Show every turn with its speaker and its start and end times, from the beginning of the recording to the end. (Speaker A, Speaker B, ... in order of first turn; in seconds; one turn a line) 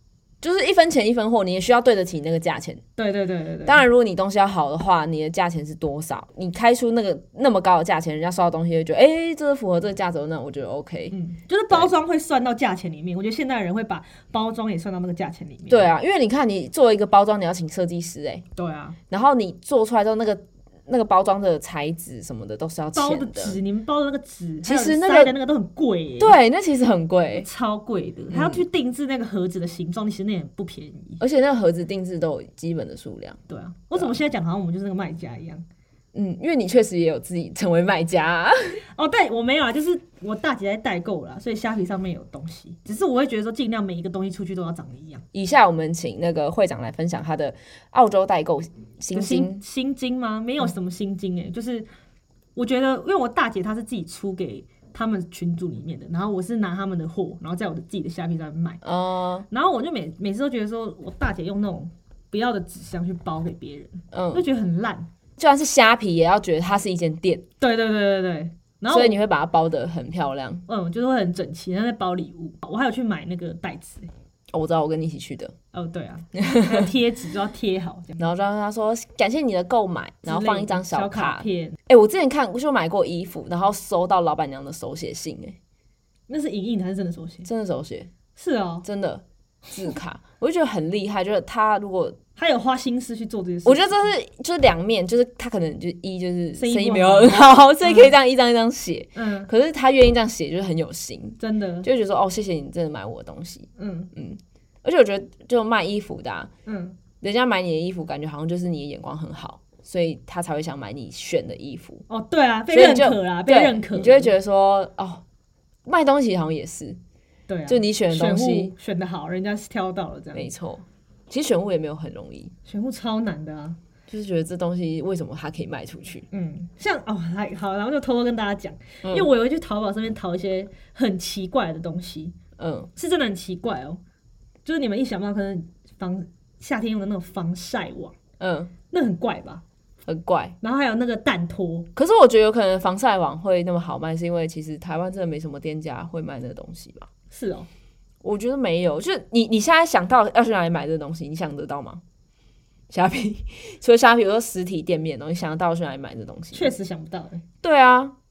Speaker A: 0.4-2.8
Speaker B: 3.0-3.9
Speaker A: 3.7-11.2
Speaker B: 11.1-15.9
Speaker A: 15.7-18.4
Speaker B: 18.6-19.0
Speaker A: 19.1-23.6
Speaker B: 22.9-26.4
Speaker A: 24.6-25.4
Speaker A: 26.2-27.5
Speaker B: 27.4-31.2
Speaker A: 28.3-28.6
Speaker A: 31.2-33.4
Speaker B: 33.5-35.6
Speaker A: 36.1-38.8
Speaker B: 39.0-45.2
Speaker A: 45.3-49.6
Speaker B: 49.1-51.9
Speaker B: 52.6-58.8
Speaker A: 58.8-59.5
Speaker B: 59.5-65.1
Speaker A: 64.1-64.5
Speaker A: 65.4-67.5
Speaker B: 67.6-69.2
Speaker A: 68.9-70.7
Speaker B: 70.7-74.1
Speaker A: 74.5-75.5
Speaker B: 75.7-78.2
Speaker A: 76.4-76.9
Speaker A: 78.2-85.6
Speaker B: 80.3-81.8
Speaker B: 86.3-87.5
Speaker A: 87.5-88.1
Speaker B: 88.4-88.9
Speaker A: 88.8-92.2
Speaker B: 92.4-94.1
Speaker A: 93.7-106.5
Speaker B: 96.5-98.1
Speaker B: 99.2-99.5
Speaker B: 101.4-101.9
Speaker B: 103.8-104.1
Speaker B: 106.7-107.0
Speaker A: 107.2-112.0
Speaker B: 112.1-114.3
Speaker A: 112.7-115.2
Speaker A: 115.9-117.0
Speaker B: 117.5-120.5
Speaker A: 117.7-118.7
Speaker A: 120.3-122.5
Speaker B: 122.7-123.8
Speaker A: 124.1-126.3
Speaker B: 126.3-132.4
Speaker A: 129.0-129.3
Speaker A: 132.6-132.9
Speaker B: 133.0-134.0
Speaker B: 134.7-138.2
Speaker A: 138.4-138.7
Speaker B: 138.9-139.6
Speaker A: 140.1-140.6
Speaker B: 140.6-141.9
Speaker A: 142.0-147.1
Speaker B: 147.3-147.7
Speaker A: 148.2-152.0
Speaker A: 152.9-156.7
Speaker B: 156.5-157.4
Speaker A: 157.6-158.2